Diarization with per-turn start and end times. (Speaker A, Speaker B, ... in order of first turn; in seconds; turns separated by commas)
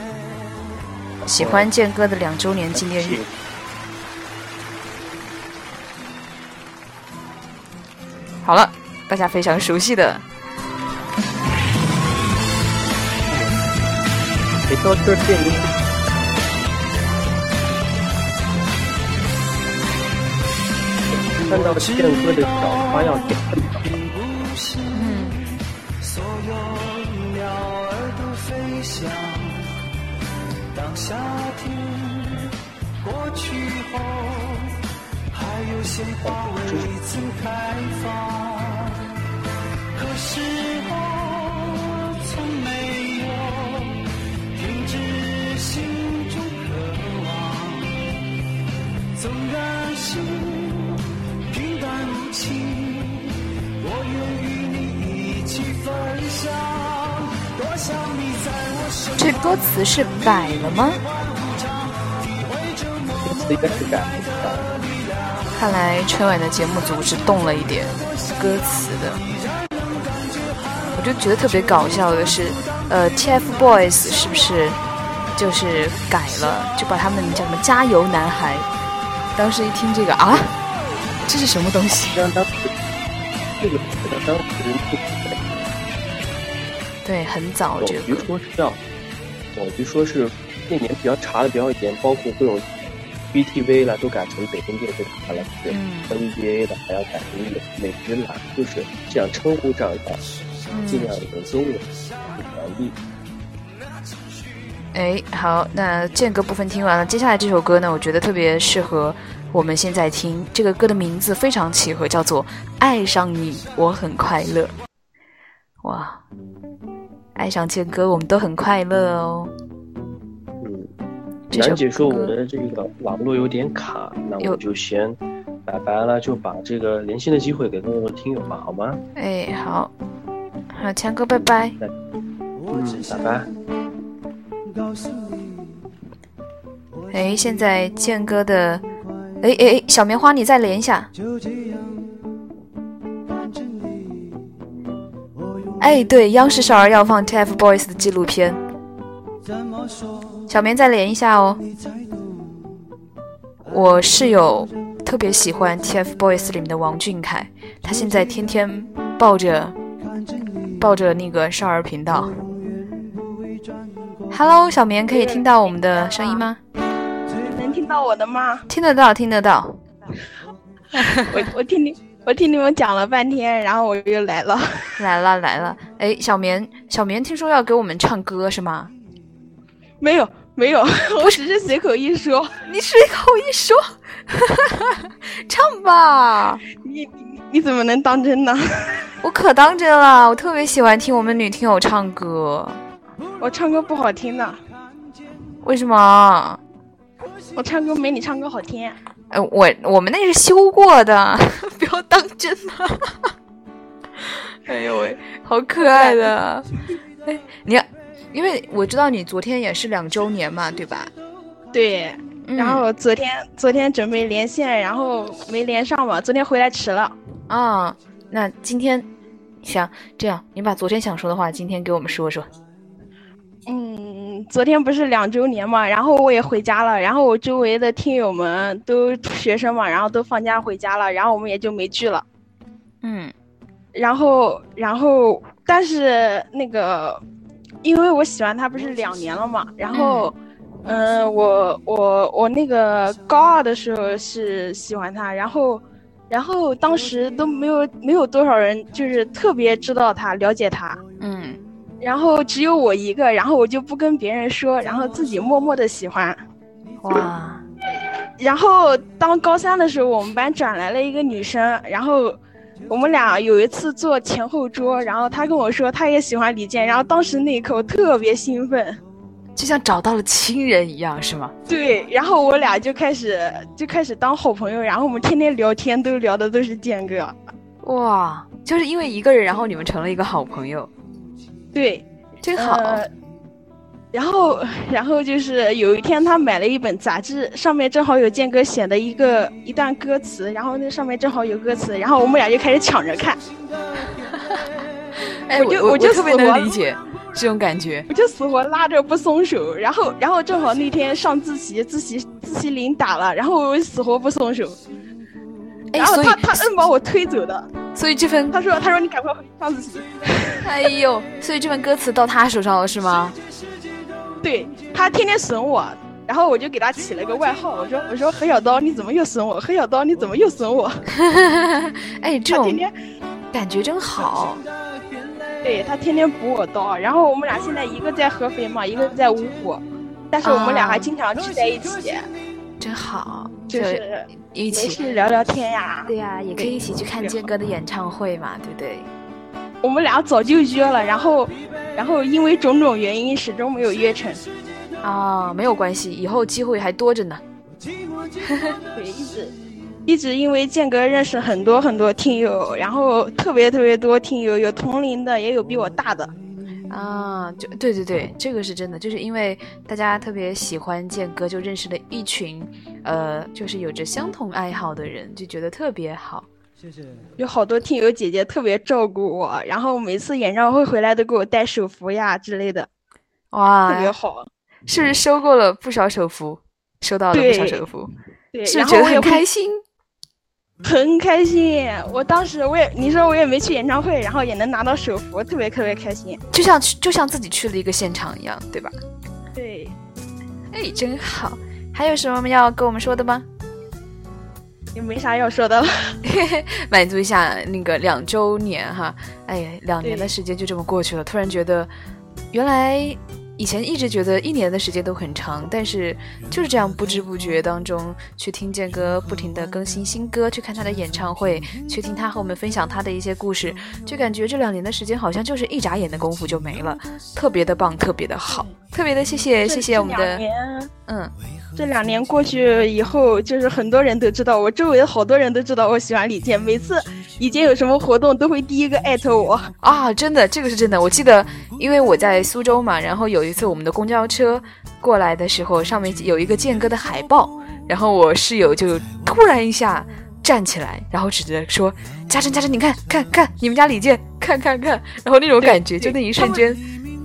Speaker A: 1.2-1.7, Speaker B: 1.3-3.2, Speaker A: 2.7-3.3, Speaker B: 8.4-10.2, Speaker A: 14.7-15.7, Speaker A: 21.3-23.9, Speaker B: 24.9-25.4, Speaker C: 26.1-29.6, Speaker C: 30.7-32.3, Speaker C: 33.0-34.5, Speaker C: 35.4-35.7, Speaker A: 36.2-36.9, Speaker C: 36.9-38.7, Speaker C: 40.0-44.0, Speaker C: 44.6-47.9, Speaker C: 49.2-50.9, Speaker C: 51.5-53.2, Speaker C: 53.8-59.0, Speaker B: 59.2-61.0, Speaker A: 63.2-64.7, Speaker B: 65.5-69.2, Speaker B: 70.9-74.8, Speaker B: 75.3-78.7, Speaker B: 79.4-80.5, Speaker B: 81.3-82.2, Speaker A: 82.1-82.7, Speaker A: 83.6-85.4, Speaker B: 87.0-88.3, Speaker A: 87.8-88.8, Speaker A: 89.5-100.2, Speaker B: 95.7-96.1, Speaker B: 100.7-101.1, Speaker A: 100.9-103.0, Speaker B: 104.9-114.7, Speaker B: 115.8-116.2, Speaker B: 117.4-119.5, Speaker A: 120.6-120.9, Speaker B: 121.5-122.3, Speaker A: 121.5-129.0, Speaker B: 129.2-129.9, Speaker B: 130.7-131.8, Speaker A: 132.7-133.5, Speaker B: 137.1-138.8, Speaker B: 139.4-141.1, Speaker B: 145.8-148.6, Speaker B: 150.5-151.6, Speaker B: 153.7-159.7, Speaker B: 160.8-162.3, Speaker B: 164.3-166.6, Speaker D: 165.1-166.4, Speaker D: 167.4-168.6, Speaker B: 168.7-169.8, Speaker D: 171.2-174.9, Speaker B: 175.0-178.9, Speaker D: 180.0-182.5, Speaker B: 182.7-186.6, Speaker D: 186.8-188.6, Speaker B: 189.2-192.8, Speaker D: 193.4-194.6, Speaker B: 195.6-196.6, Speaker D: 197.6-199.0, Speaker B: 199.3-203.3, Speaker B: 204.7-206.7, Speaker D: 205.8-206.3, Speaker B: 207.2-211.1, Speaker D: 211.7-217.2, Speaker B: 212.4-212.8, Speaker B: 217.5-219.1, Speaker B: 219.6-222.5, Speaker D: 223.7-232.2, Speaker B: 233.0-233.3, Speaker D: 233.9-237.2, Speaker D: 237.8-251.0, Speaker B: 239.9-240.3, Speaker B: 251.2-251.6, Speaker D: 252.0-256.4, Speaker B: 257.0-257.6, Speaker D: 258.4-269.0, Speaker B: 269.6-271.5, Speaker D: 271.7-277.4, Speaker B: 277.8-280.9, Speaker D: 281.7-283.1, Speaker B: 282.4-283.0, Speaker D: 284.1-293.4, Speaker B: 295.5-298.1, Speaker D: 295.5-296.7, Speaker D: 298.1-304.8, Speaker B: 305.9-306.7, Speaker D: 305.9-307.7, Speaker B: 307.9-308.6, Speaker D: 308.5-310.6, Speaker B: 310.6-313.4, Speaker D: 314.4-321.0, Speaker B: 321.1-322.9, Speaker D: 322.5-322.9, Speaker B: 323.5-324.6, Speaker D: 325.6-332.3, Speaker B: 330.4-331.1, Speaker B: 332.8-335.0, Speaker D: 333.7-337.4, Speaker B: 336.1-339.1, Speaker D: 339.8-344.4, Speaker B: 345.0-347.4, Speaker D: 348.9-349.5, Speaker D: 350.1-356.3, Speaker B: 356.9-366.5, Speaker D: 367.4-372.9, Speaker B: 373.5-374.1, Speaker D: 373.9-374.5, Speaker B: 374.9-378.1, Speaker D: 377.3-377.9, Speaker D: 378.5-379.4, Speaker B: 378.7-379.8, Speaker D: 380.8-386.4, Speaker B: 386.5-388.9, Speaker D: 389.6-389.9, Speaker B: 390.7-393.4, Speaker D: 394.9-396.1, Speaker B: 396.2-401.9, Speaker D: 400.0-400.3, Speaker B: 402.5-420.4, Speaker D: 419.6-420.9, Speaker B: 421.1-421.3, Speaker D: 421.8-429.7, Speaker B: 429.8-446.8, Speaker D: 445.6-446.6